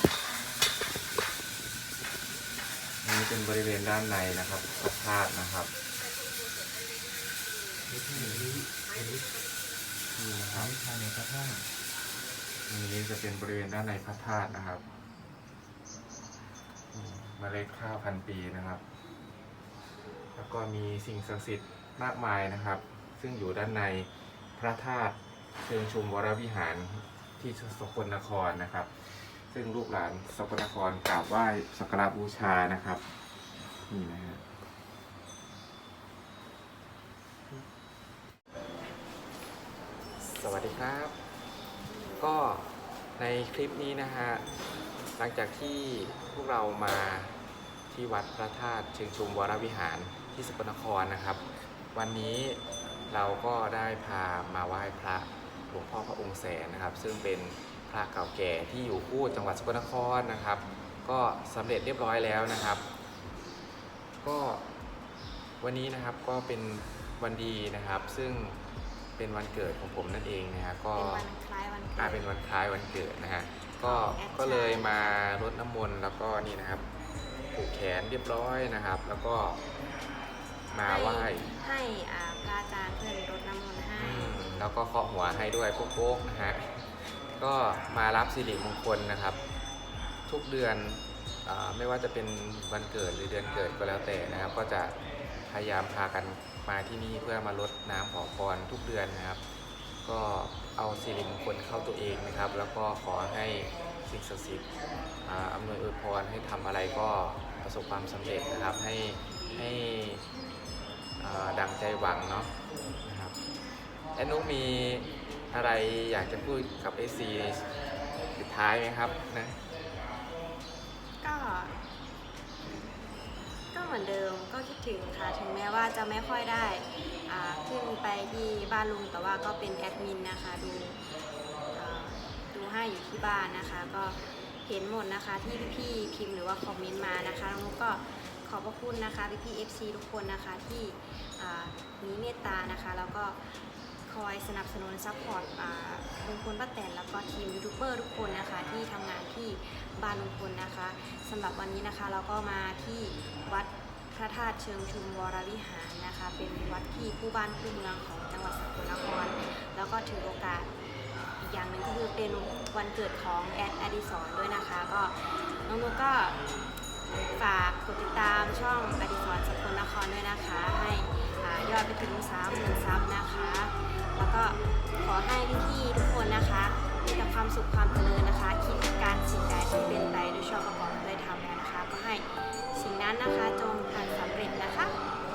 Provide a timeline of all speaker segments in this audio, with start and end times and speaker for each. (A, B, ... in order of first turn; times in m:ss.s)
0:03.0-0:05.7 A
0:07.9-0:09.3 B
0:08.1-0:08.5 A
0:10.2-0:10.7 A
0:10.5-0:11.6 B
0:12.7-0:14.8 A
0:16.9-0:18.8 A
0:20.4-0:33.0 A
0:33.7-0:34.4 A
0:40.2-0:41.2 A
0:42.2-0:44.5 A
0:45.2-0:47.4 A
0:47.9-1:02.9 A
1:04.2-1:04.7 A
1:05.6-1:08.6 A
1:09.2-1:11.3 A
1:10.9-1:12.3 C
1:12.0-1:16.8 A
1:13.8-1:15.0 C
1:17.5-1:19.6 A
1:20.7-1:21.5 A
1:20.8-1:24.4 C
1:24.0-1:29.4 A
1:30.3-1:39.4 A
1:40.0-1:44.7 A
1:45.2-1:50.2 A
1:51.2-1:53.4 A
1:54.2-1:57.8 A
1:58.3-1:59.6 A
2:01.2-2:01.8 C
2:03.7-2:11.0 C
2:11.7-2:40.7 C
2:41.4-2:46.6 C
2:47.2-3:05.0 C